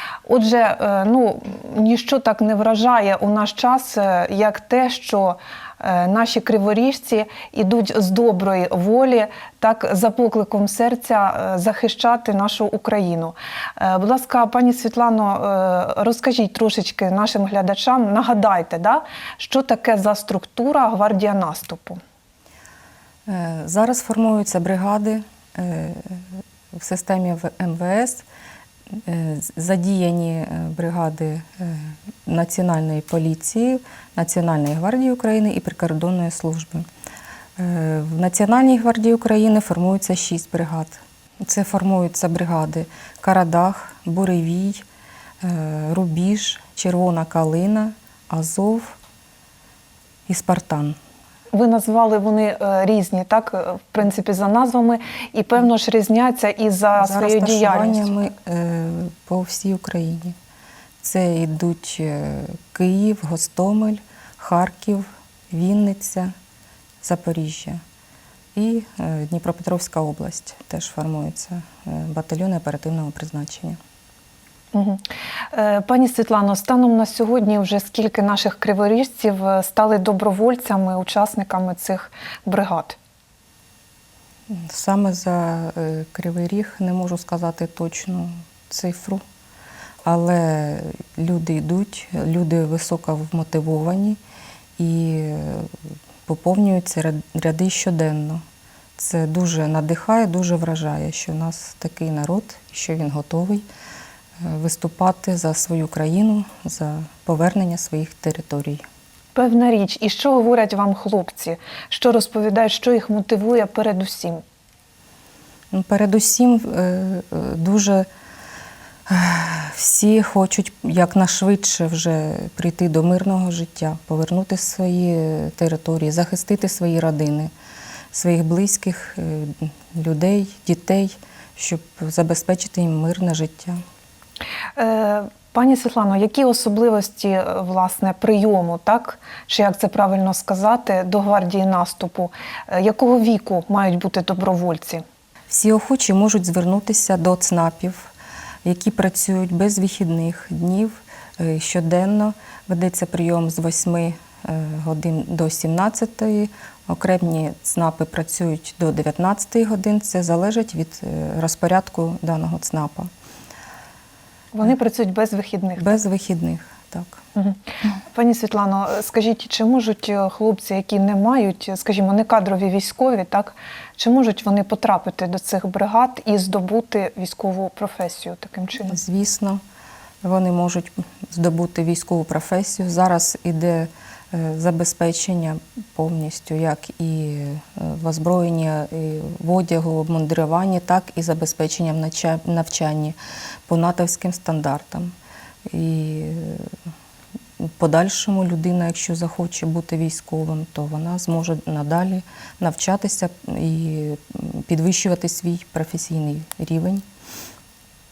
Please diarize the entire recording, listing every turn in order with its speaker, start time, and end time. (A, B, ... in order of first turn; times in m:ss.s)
0:00.3-0:22.0 A
0:23.3-0:28.2 B
0:29.1-0:36.9 B
0:37.6-0:44.8 B
0:45.4-0:49.0 B
0:50.3-0:51.0 B
0:51.5-0:58.2 A
0:57.0-1:00.4 B
1:01.0-1:06.3 B
1:07.0-1:07.8 B
1:08.6-1:13.8 B
1:14.7-1:23.0 A
1:24.5-1:29.2 B
1:30.0-1:34.2 B
1:34.8-1:35.8 B
1:36.3-1:38.4 B
1:39.0-1:43.6 B
1:44.4-1:48.8 B
1:49.3-1:54.4 A
1:55.7-1:58.1 B
1:59.1-2:07.5 B
2:08.1-2:13.8 B
2:14.8-2:25.0 A
2:25.5-2:28.1 B
2:28.6-2:43.1 B
2:44.5-2:46.0 A
2:45.8-2:47.2 B
2:47.4-2:59.0 A
2:58.9-2:59.6 B
3:00.2-3:13.2 B
3:13.7-3:15.1 B
3:15.7-3:16.7 B
3:17.6-3:27.0 B